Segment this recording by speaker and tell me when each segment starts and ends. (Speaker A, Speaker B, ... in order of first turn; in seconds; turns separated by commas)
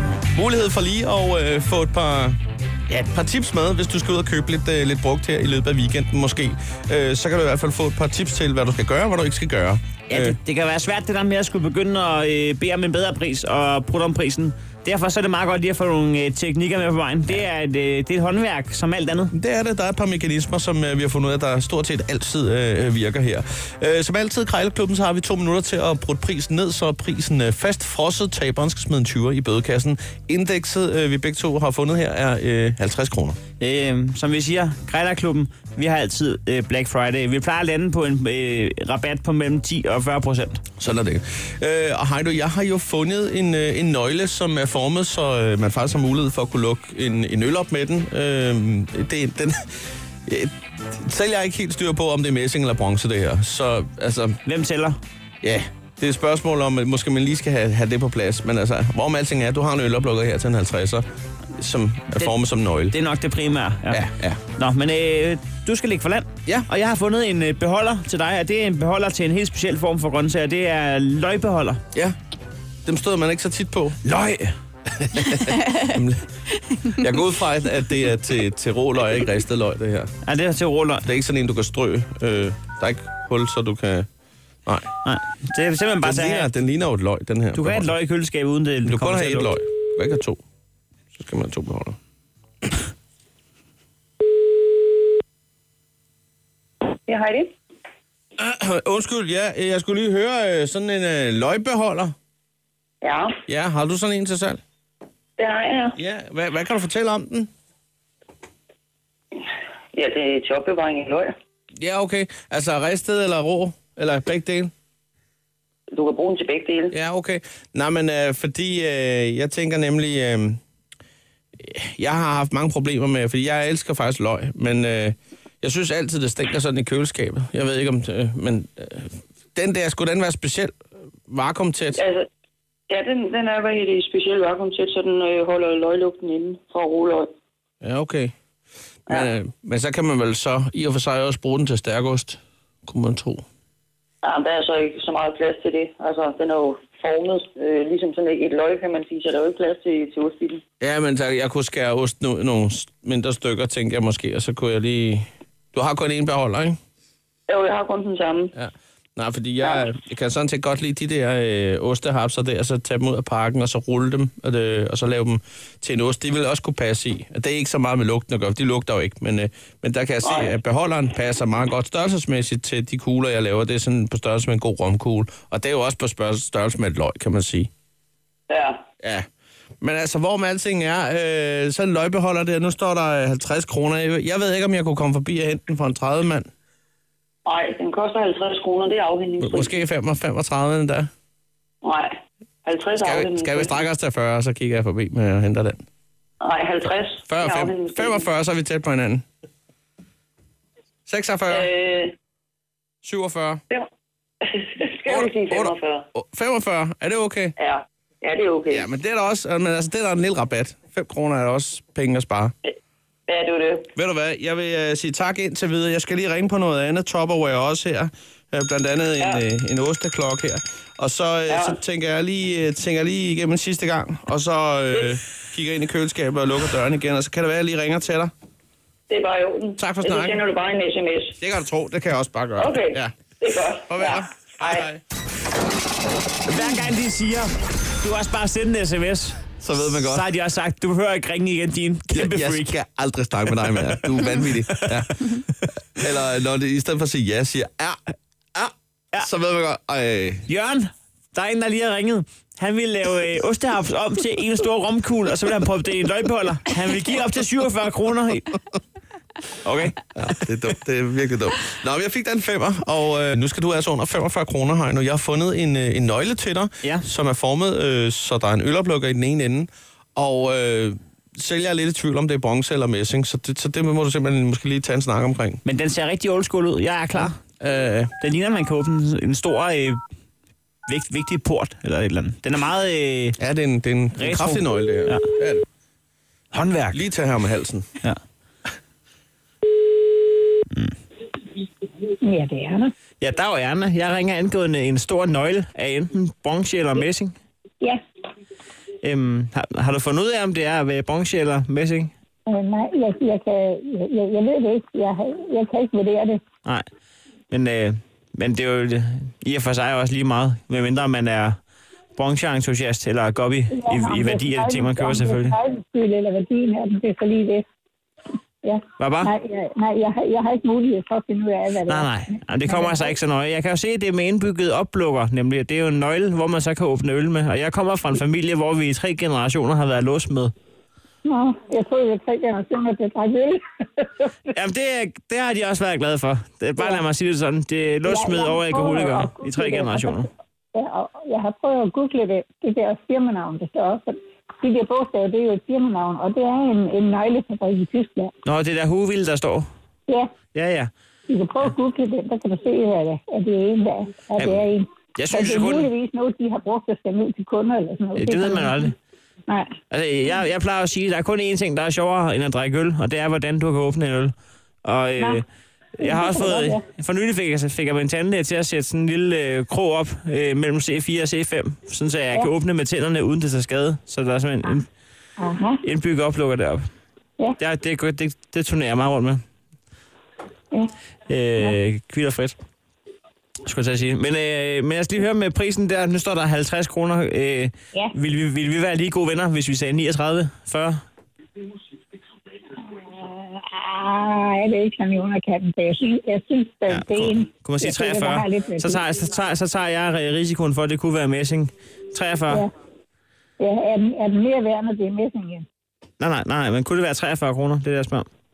Speaker A: 0.3-2.4, Speaker A: 2.9-10.4, Speaker B: 10.1-19.3, Speaker A: 19.3-33.4, Speaker B: 33.6-40.6, Speaker A: 40.8-49.7, Speaker A: 50.3-54.4, Speaker B: 54.4-55.0, Speaker A: 55.4-63.0, Speaker B: 62.9-71.8, Speaker A: 63.9-64.4, Speaker A: 72.8-76.3, Speaker A: 76.8-80.1, Speaker B: 80.2-81.1, Speaker A: 81.0-84.1, Speaker B: 85.0-86.5, Speaker A: 86.0-87.9, Speaker B: 87.5-89.5, Speaker A: 88.8-90.4, Speaker A: 91.1-92.0, Speaker C: 97.1-97.5, Speaker A: 98.4-102.1, Speaker C: 103.0-103.3, Speaker A: 103.5-104.6, Speaker C: 105.4-106.0, Speaker A: 106.0-107.5, Speaker C: 109.9-111.3, Speaker A: 111.8-114.7, Speaker C: 115.9-116.9, Speaker A: 116.9-120.6, Speaker A: 121.6-130.7, Speaker A: 131.3-132.0, Speaker C: 131.9-132.3, Speaker C: 132.9-137.3, Speaker A: 137.8-138.3, Speaker A: 139.1-143.4, Speaker C: 144.2-150.6, Speaker A: 150.8-156.8, Speaker C: 157.5-158.5, Speaker A: 158.5-177.7, Speaker C: 170.2-170.5, Speaker C: 178.5-178.8, Speaker A: 179.8-186.5, Speaker C: 187.4-189.8, Speaker A: 189.4-191.1, Speaker C: 191.8-192.1, Speaker C: 192.6-193.8, Speaker A: 193.0-195.8, Speaker C: 196.4-198.2, Speaker A: 197.3-199.2, Speaker A: 201.1-201.7, Speaker C: 201.5-202.2, Speaker A: 203.0-203.6, Speaker C: 204.4-206.1, Speaker A: 205.1-207.5, Speaker C: 207.6-208.9, Speaker A: 208.7-212.5, Speaker C: 212.6-213.9, Speaker A: 213.9-228.3, Speaker C: 221.5-221.8, Speaker C: 229.1-231.3, Speaker A: 229.8-230.4, Speaker A: 231.4-233.2, Speaker C: 232.6-234.8, Speaker A: 233.9-235.0, Speaker B: 236.4-242.7, Speaker A: 239.6-240.3, Speaker A: 242.1-245.4, Speaker B: 243.6-245.3, Speaker A: 246.0-250.4, Speaker B: 250.4-258.5, Speaker B: 259.6-260.0, Speaker A: 260.1-275.6, Speaker B: 275.6-277.4, Speaker A: 277.1-278.1, Speaker B: 278.2-280.0, Speaker B: 280.9-283.4, Speaker A: 283.4-285.6, Speaker B: 284.1-285.3, Speaker B: 286.5-287.0, Speaker A: 286.9-287.9, Speaker D: 292.2-292.9, Speaker B: 293.2-297.4, Speaker B: 299.0-302.1, Speaker D: 302.5-306.4, Speaker B: 307.5-311.6, Speaker B: 312.1-315.6, Speaker D: 313.7-317.6, Speaker D: 318.6-323.1, Speaker B: 319.0-319.3, Speaker B: 321.8-330.5, Speaker D: 331.2-334.1, Speaker B: 334.5-340.3, Speaker D: 338.0-348.3, Speaker B: 348.4-349.7, Speaker B: 350.5-350.9, Speaker D: 351.3-358.9, Speaker B: 354.4-355.9, Speaker B: 358.1-358.9, Speaker B: 359.9-365.4, Speaker D: 366.0-366.8, Speaker B: 366.0-374.9, Speaker D: 375.4-375.8, Speaker B: 375.8-376.9, Speaker B: 377.6-379.4, Speaker B: 381.3-382.6, Speaker B: 383.6-391.0, Speaker D: 392.9-399.0, Speaker B: 396.9-402.6, Speaker D: 403.6-405.6, Speaker B: 406.2-408.3